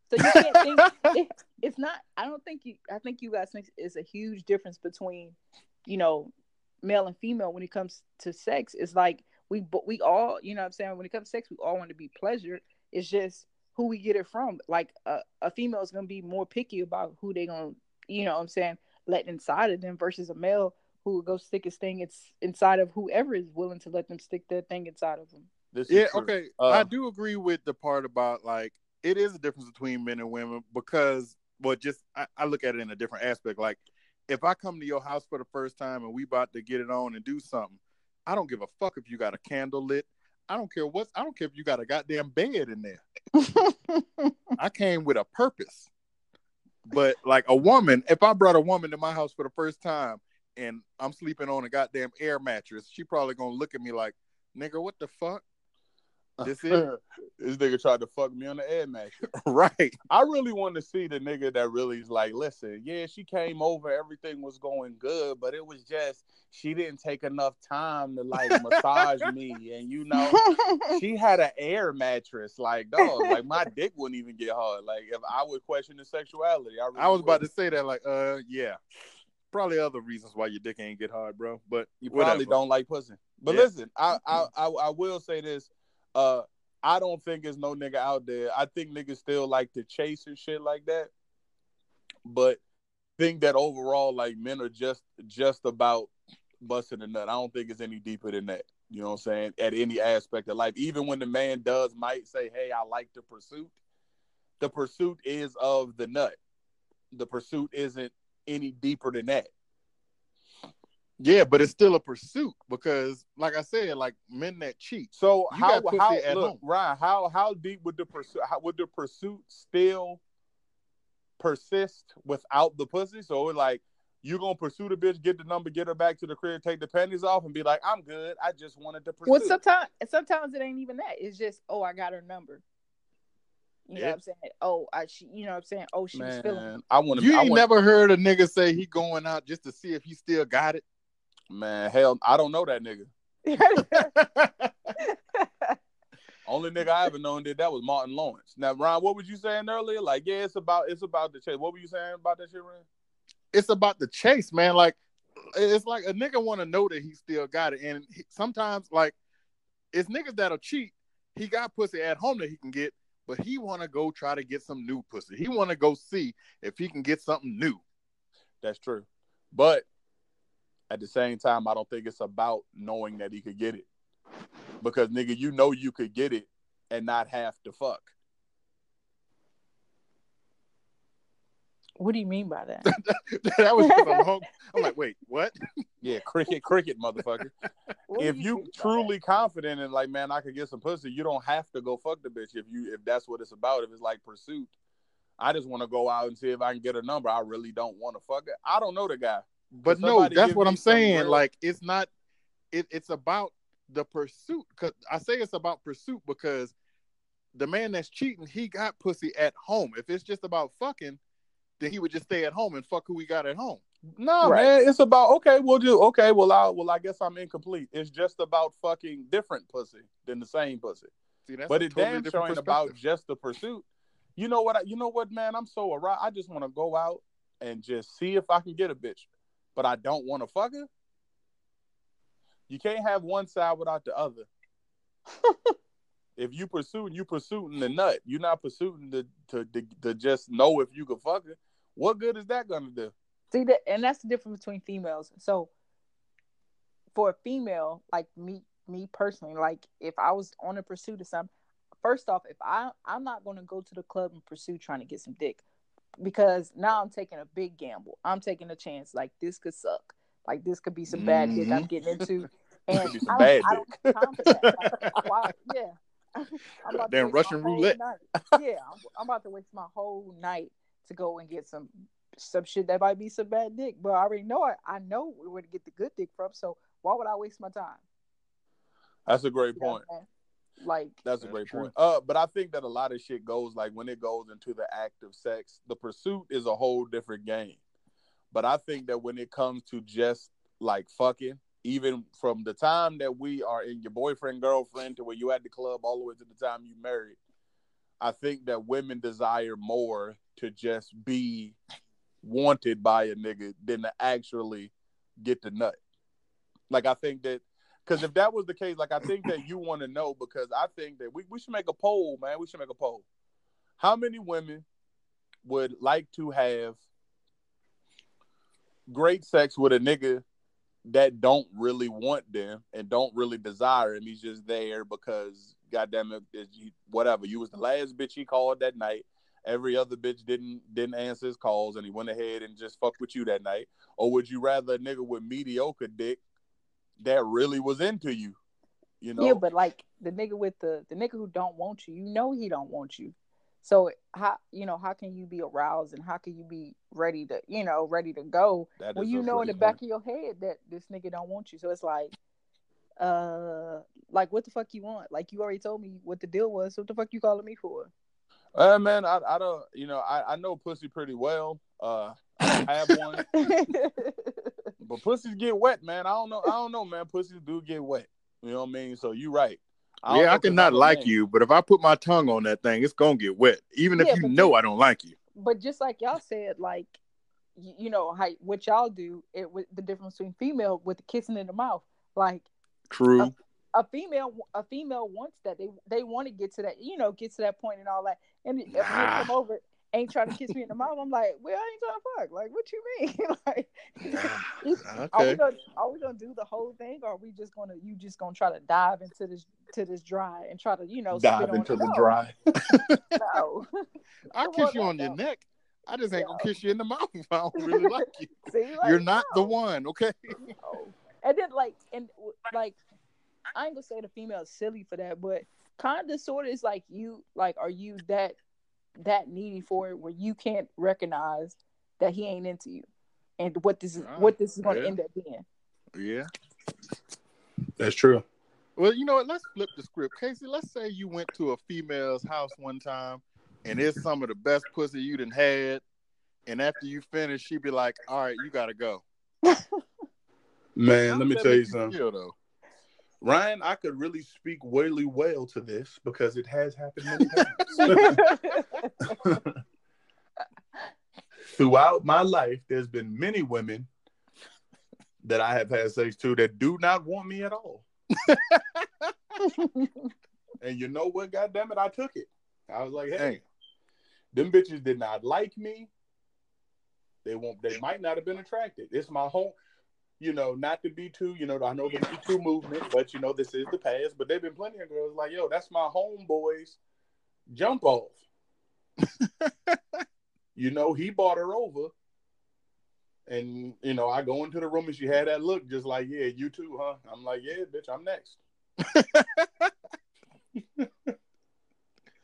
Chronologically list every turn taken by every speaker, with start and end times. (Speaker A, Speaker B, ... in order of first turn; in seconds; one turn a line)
Speaker A: 0.1-25.5
Speaker B: 25.7-26.9
Speaker C: 25.9-43.0
Speaker A: 43.4-44.3
Speaker C: 44.6-45.9
Speaker C: 46.9-55.4
Speaker B: 56.4-59.2
Speaker C: 56.4-56.9
Speaker C: 59.3-60.0
Speaker B: 60.1-70.4
Speaker A: 70.2-71.0
Speaker B: 70.9-77.4
Speaker A: 73.0-73.3
Speaker C: 77.0-78.8
Speaker C: 79.5-82.6
Speaker B: 82.0-91.1
Speaker B: 92.2-92.6
Speaker B: 93.2-96.1
Speaker B: 96.6-103.8
Speaker B: 104.6-106.4
Speaker B: 107.1-109.5
Speaker C: 111.2-116.6
Speaker B: 115.2-120.2
Speaker B: 121.4-129.6
Speaker A: 129.3-132.6
Speaker A: 133.9-136.7
Speaker B: 136.1-137.7
Speaker C: 137.2-140.8
Speaker B: 141.5-143.1
Speaker A: 143.5-144.1
Speaker A: 145.0-145.8
Speaker B: 146.5-152.9
Speaker C: 153.5-155.0
Speaker C: 155.5-159.2
Speaker C: 159.9-167.8
Speaker B: 168.6-169.9
Speaker B: 170.9-173.9
Speaker B: 174.8-178.1
Speaker A: 182.0-182.8
Speaker C: 182.9-185.6
Speaker A: 183.8-184.2
Speaker B: 186.0-187.5
Speaker A: 188.1-189.1
Speaker B: 188.2-194.7
Speaker B: 195.4-201.4
Speaker C: 199.8-202.1
Speaker C: 202.7-206.7
Speaker C: 207.5-211.2
Speaker C: 211.8-213.8
Speaker B: 214.2-221.1
Speaker A: 214.4-214.7
Speaker C: 221.5-222.9
Speaker B: 221.7-230.9
Speaker B: 232.7-234.5
Speaker B: 236.4-243.1
Speaker A: 243.5-245.7
Speaker A: 247.2-251.5
Speaker A: 252.0-255.6
Speaker A: 256.2-278.0
Speaker C: 261.1-261.9
Speaker B: 262.9-264.8
Speaker C: 266.9-268.0
Speaker B: 279.3-280.0
Speaker A: 279.8-280.3
Speaker A: 280.8-281.2
Speaker B: 281.2-287.8
Speaker C: 281.4-281.9
Speaker B: 288.5-297.4
Speaker B: 298.2-301.8
Speaker B: 302.4-306.0
Speaker B: 306.9-313.2
Speaker B: 314.0-314.9
Speaker B: 315.6-317.0
Speaker B: 319.1-320.4
Speaker B: 321.0-336.4
Speaker B: 337.2-338.6
Speaker B: 339.2-339.6
Speaker A: 339.4-352.3
Speaker B: 349.0-350.0
Speaker A: 353.2-358.1
Speaker B: 358.8-363.4
Speaker A: 363.5-364.7
Speaker B: 365.0-371.3
Speaker C: 370.3-375.4
Speaker A: 374.2-374.8
Speaker A: 375.6-377.2
Speaker A: 377.8-382.7
Speaker C: 383.1-383.5
Speaker A: 383.4-402.3
Speaker C: 388.9-389.5
Speaker C: 394.3-395.6
Speaker B: 401.3-402.6
Speaker C: 402.9-403.2
Speaker A: 403.4-403.9
Speaker C: 404.5-410.6
Speaker A: 404.6-405.4
Speaker A: 406.3-406.7
Speaker A: 407.8-408.1
Speaker A: 408.7-409.8
Speaker A: 410.7-413.0
Speaker A: 413.8-418.6
Speaker A: 419.2-423.1
Speaker A: 423.6-425.6
Speaker C: 424.2-425.1
Speaker C: 426.2-426.5
Speaker B: 428.0-428.4
Speaker C: 429.0-436.0
Speaker C: 436.7-439.2
Speaker A: 439.6-440.0
Speaker B: 441.0-442.1
Speaker C: 441.3-442.6
Speaker B: 443.4-448.4
Speaker C: 447.4-448.2
Speaker A: 448.0-449.1
Speaker B: 449.3-449.7
Speaker B: 451.7-454.1
Speaker B: 455.4-458.1
Speaker C: 458.4-458.8
Speaker A: 459.6-460.3
Speaker B: 460.8-463.6
Speaker C: 463.4-463.6
Speaker B: 464.5-466.1
Speaker B: 467.4-469.8
Speaker B: 470.4-477.0
Speaker B: 477.7-478.4
Speaker C: 479.4-479.9
Speaker B: 480.8-482.1
Speaker B: 483.5-488.6
Speaker C: 489.0-489.9
Speaker B: 490.8-491.3